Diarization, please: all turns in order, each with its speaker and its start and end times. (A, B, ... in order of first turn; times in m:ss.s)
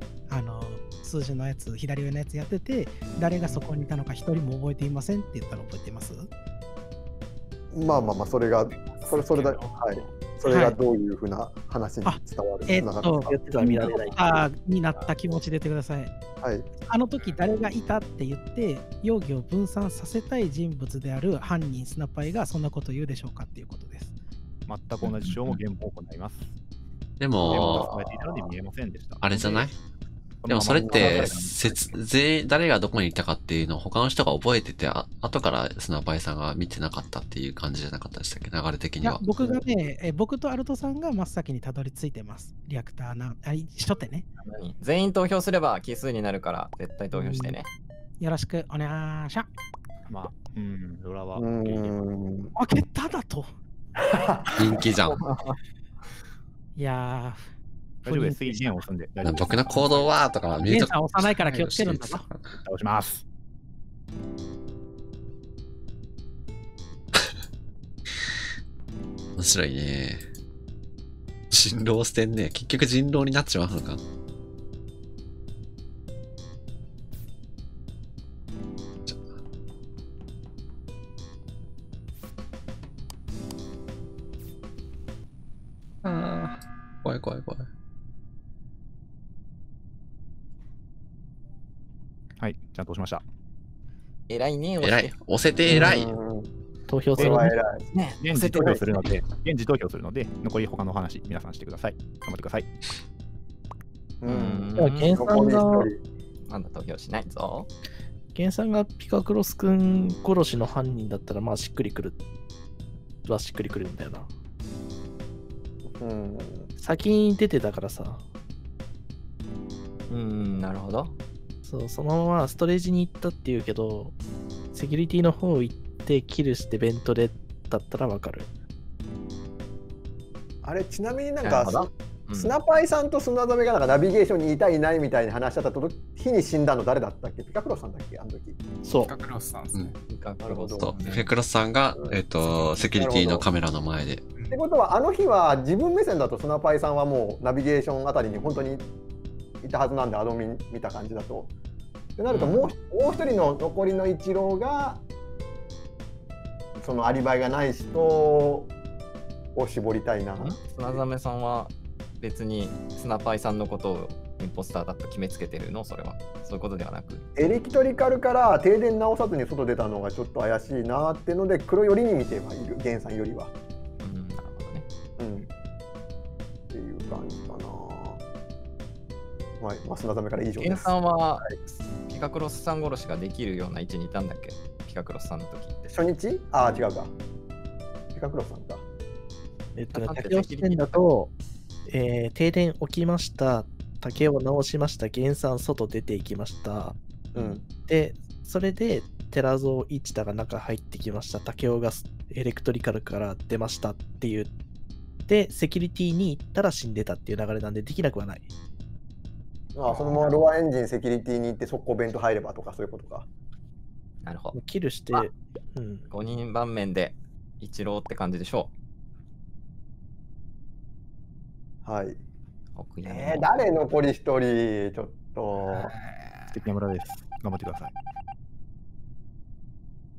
0:00.3-0:06.3 A
0:03.4-0:03.7 B
0:07.7-0:13.4 C
0:08.7-0:10.3 B
0:10.4-0:10.8 A
0:12.0-0:16.1 A
0:13.3-0:14.3 D
0:16.4-0:16.7 C
0:16.9-0:24.1 A
0:24.7-0:26.5 E
0:27.2-0:27.9 F
0:27.4-0:28.5 C
0:27.4-0:29.7 E
0:29.2-0:29.8 F
0:30.4-0:31.9 E
0:30.5-0:39.2 F
0:30.8-0:31.4 C
0:39.0-0:44.2 A
0:44.4-0:47.7 G
0:47.1-0:47.6 A
0:48.2-0:49.5 A
0:50.1-0:52.0 E
0:51.3-0:52.5 C
0:52.5-0:53.5 A
0:54.0-0:54.8 C
0:54.6-0:55.2 F
0:55.1-0:55.6 G
0:56.8-0:57.5 A
0:58.0-1:00.1 E
0:58.0-0:58.9 A
0:59.2-1:02.4 F
1:00.6-1:02.2 A
1:02.5-1:03.2 E
1:09.4-1:10.2 F
1:11.5-1:14.0 F
1:26.0-1:27.7 F
1:32.4-1:33.2 E
1:34.3-1:35.1 G
1:34.8-1:36.2 F
1:35.7-1:35.9 D
1:35.7-1:36.5 C
1:36.9-1:37.6 D
1:37.2-1:37.8 C
1:37.2-1:37.4 E
1:37.9-1:39.1 G
1:38.2-1:42.7 E
1:38.5-1:38.8 C
1:44.2-1:46.0 C
1:44.2-1:45.1 G
1:44.7-1:45.9 D
1:46.5-1:47.7 G
1:48.3-1:52.2 D
1:53.2-1:54.3 D
1:55.9-1:56.7 C
1:56.8-1:58.2 D
2:00.1-2:01.2 G
2:01.6-2:04.1 D
2:04.7-2:08.5 D
2:10.6-2:18.6 C
2:11.4-2:12.5 G
2:18.8-2:19.1 D
2:19.0-2:20.0 B
2:20.1-2:21.3 G
2:20.4-2:20.9 C
2:20.8-2:24.2 F
2:22.0-2:23.4 C
2:24.5-2:28.9 C
2:29.6-2:31.5 C
2:32.2-2:35.0 C
2:32.3-2:32.7 G
2:36.8-2:38.7 C
2:39.5-2:41.0 C
2:40.4-2:47.2 G
2:47.4-2:53.5 C
2:54.0-2:54.8 G
2:55.2-2:55.5 C
2:56.7-2:58.2 C
2:59.6-3:01.5 C
3:00.6-3:05.9 G
3:05.9-3:07.1 C
3:08.1-3:08.8 C
3:09.8-3:11.3 D
3:09.9-3:10.8 G
3:11.9-3:17.0 D
3:17.3-3:17.7 C
3:17.8-3:24.5 D
3:25.3-3:28.5 D
3:29.7-3:33.3 C
3:29.9-3:30.2 G
3:34.2-3:34.6 G
3:34.5-3:36.0 D
3:36.1-3:38.7 G
3:41.8-3:42.2 C
3:42.8-3:43.5 G
3:43.0-3:45.9 C
3:45.7-3:46.5 B
3:46.5-3:47.9 E